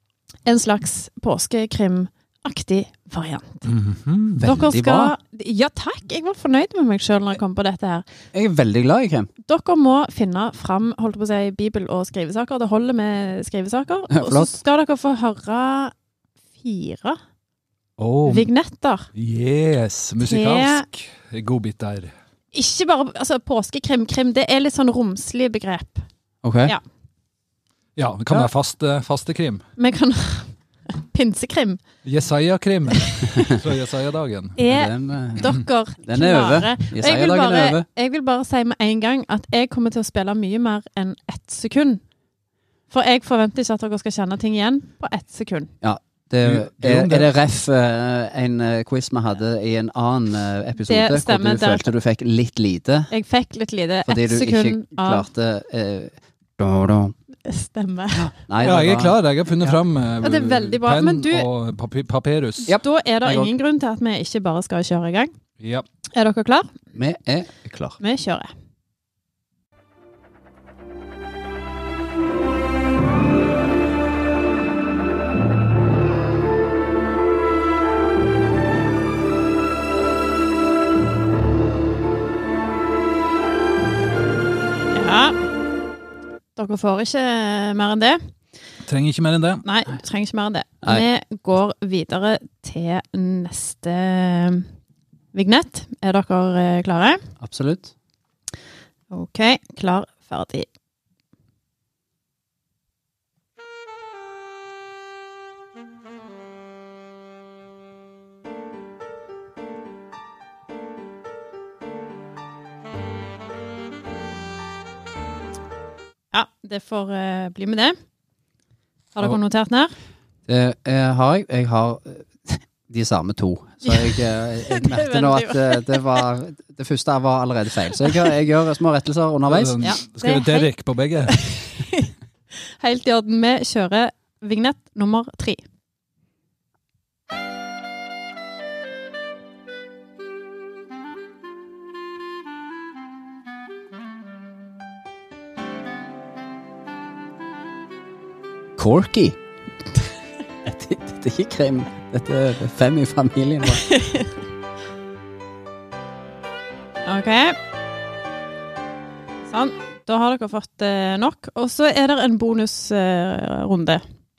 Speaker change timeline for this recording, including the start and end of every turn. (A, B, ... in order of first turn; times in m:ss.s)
0:00.4-0:03.7 A
0:03.6-0:04.5 B
0:04.4-0:05.1 C
0:04.4-0:08.0 A
0:08.3-0:09.3 C
0:09.4-0:15.9 A
0:14.1-0:14.5 C
0:16.6-0:17.2 A
0:18.0-0:18.5 B
0:18.2-0:19.1 A
0:19.1-0:22.1 B
0:20.2-0:20.8 A
0:22.5-0:26.0 A
0:26.4-0:26.7 C
0:28.0-0:29.6 B
0:29.8-0:31.8 A
0:32.0-0:34.6 B
0:34.6-0:42.0 A
0:34.7-0:37.8 C
0:42.9-0:45.7 A
0:45.8-0:53.1 C
0:46.4-0:47.3 B
0:50.8-0:51.9 A
0:53.1-0:55.2 A
0:54.0-0:57.1 C
0:57.4-0:58.3 A
0:58.1-0:59.8 C
0:58.6-1:02.7 B
1:00.2-1:01.5 A
1:02.7-1:03.5 C
1:02.7-1:05.3 A
1:05.6-1:05.8 B
1:06.1-1:06.7 A
1:06.9-1:08.0 C
1:08.0-1:08.5 A
1:24.9-1:25.4 A
1:26.6-1:28.2 A
1:28.8-1:29.6 B
1:29.6-1:34.7 A
1:35.3-1:37.2 A
1:37.4-1:37.9 C
1:39.1-1:40.7 A
1:56.3-1:58.0 A
1:59.1-1:59.9 A
2:00.5-2:09.8 C
2:03.8-2:06.2 A
2:09.5-2:11.4 B
2:09.8-2:10.7 A
2:11.3-2:12.1 A
2:12.8-2:15.6 A
2:28.8-2:29.4 C
2:30.6-2:33.8 C
2:33.7-2:34.3 A
2:37.0-2:37.6 A
2:39.5-2:44.0 A